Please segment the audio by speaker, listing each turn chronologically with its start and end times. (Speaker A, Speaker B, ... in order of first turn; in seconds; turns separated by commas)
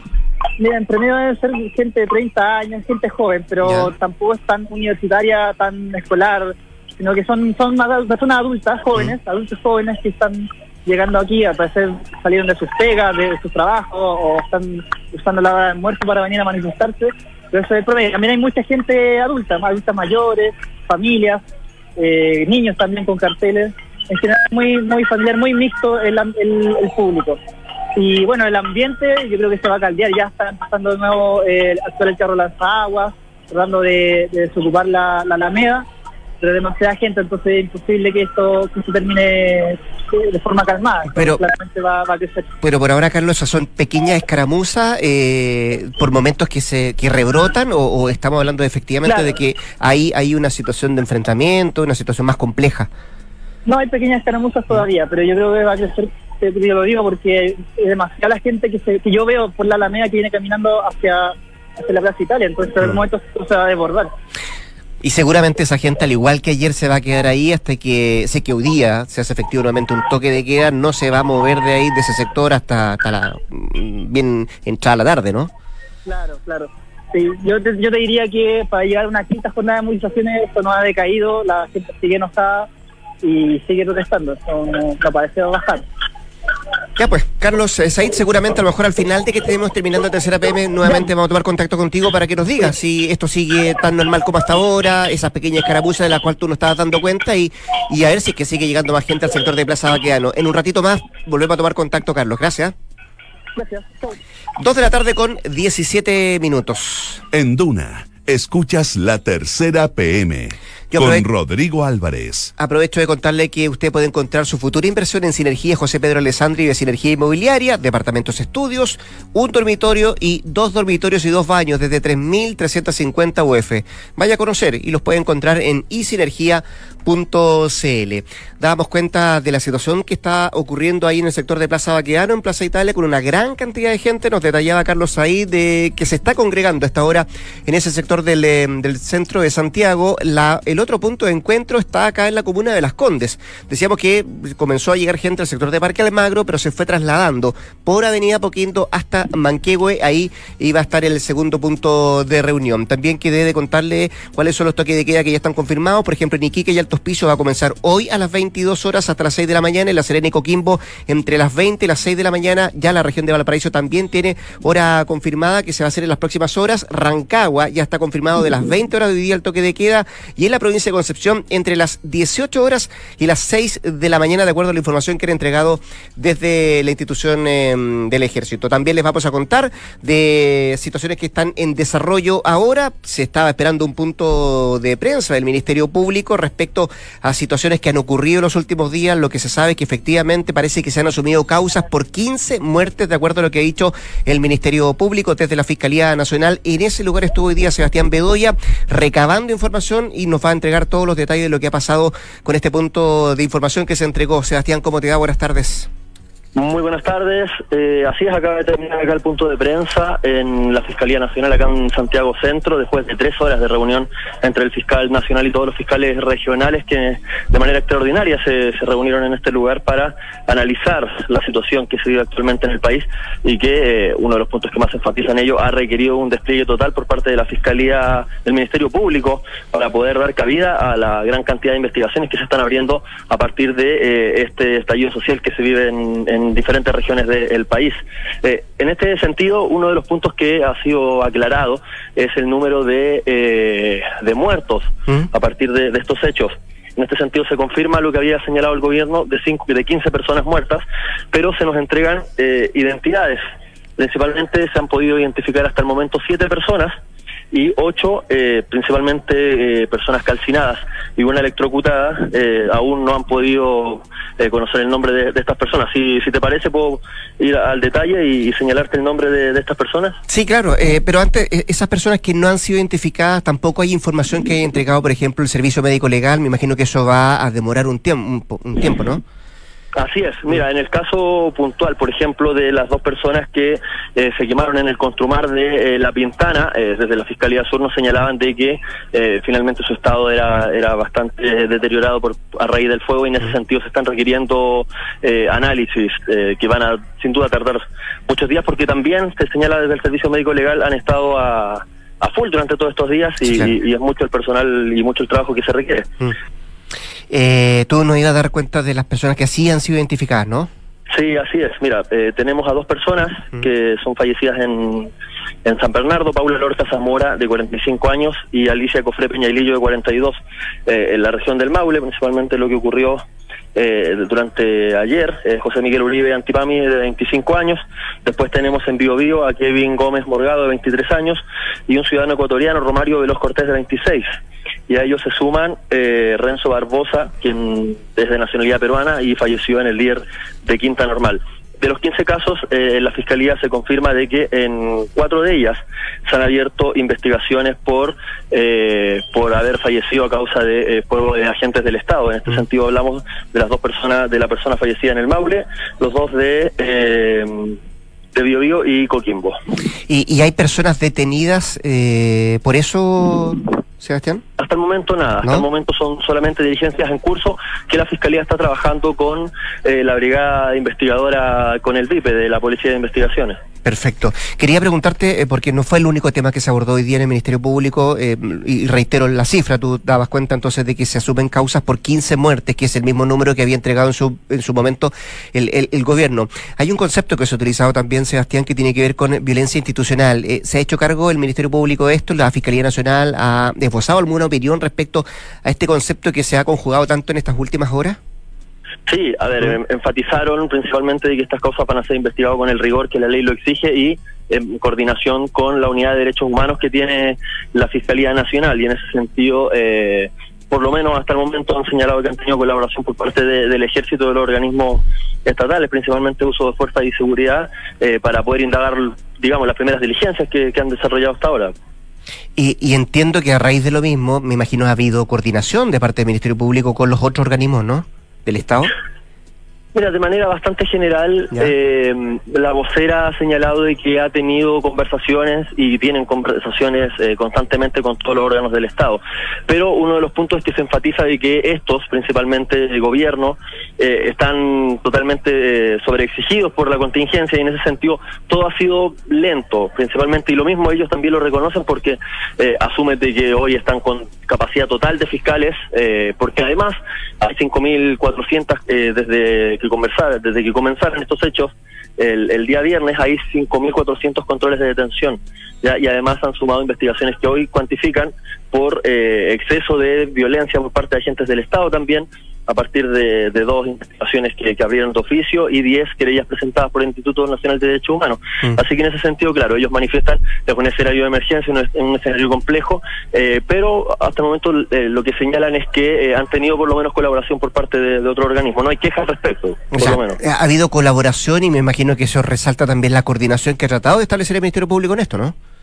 Speaker A: 0.6-21.4, Speaker B: 3.6-3.9, Speaker A: 22.0-27.4, Speaker A: 28.0-35.9, Speaker A: 36.4-42.5, Speaker B: 41.1-41.4, Speaker B: 42.6-52.9, Speaker A: 49.1-49.3, Speaker A: 53.7-64.1, Speaker B: 65.0-75.5, Speaker A: 76.0-82.7, Speaker A: 83.2-85.8, Speaker B: 87.0-102.8, Speaker A: 103.5-104.2, Speaker B: 104.6-107.2, Speaker C: 107.3-112.5, Speaker B: 110.9-111.2, Speaker B: 112.6-205.9, Speaker D: 206.6-253.4, Speaker D: 254.0-256.9, Speaker D: 257.5-270.2, Speaker B: 270.3-279.2, Speaker D: 279.9-306.1, Speaker B: 303.4-303.7, Speaker B: 307.3-310.7, Speaker D: 311.1-315.1, Speaker D: 315.6-320.4, Speaker D: 320.9-323.2, Speaker D: 323.8-334.3, Speaker D: 334.9-357.8, Speaker D: 358.4-359.6, Speaker B: 360.1-364.4, Speaker D: 364.6-373.6, Speaker B: 373.9-398.2, Speaker D: 399.1-421.7, Speaker B: 422.6-428.9, Speaker D: 429.9-490.4, Speaker B: 489.9-495.6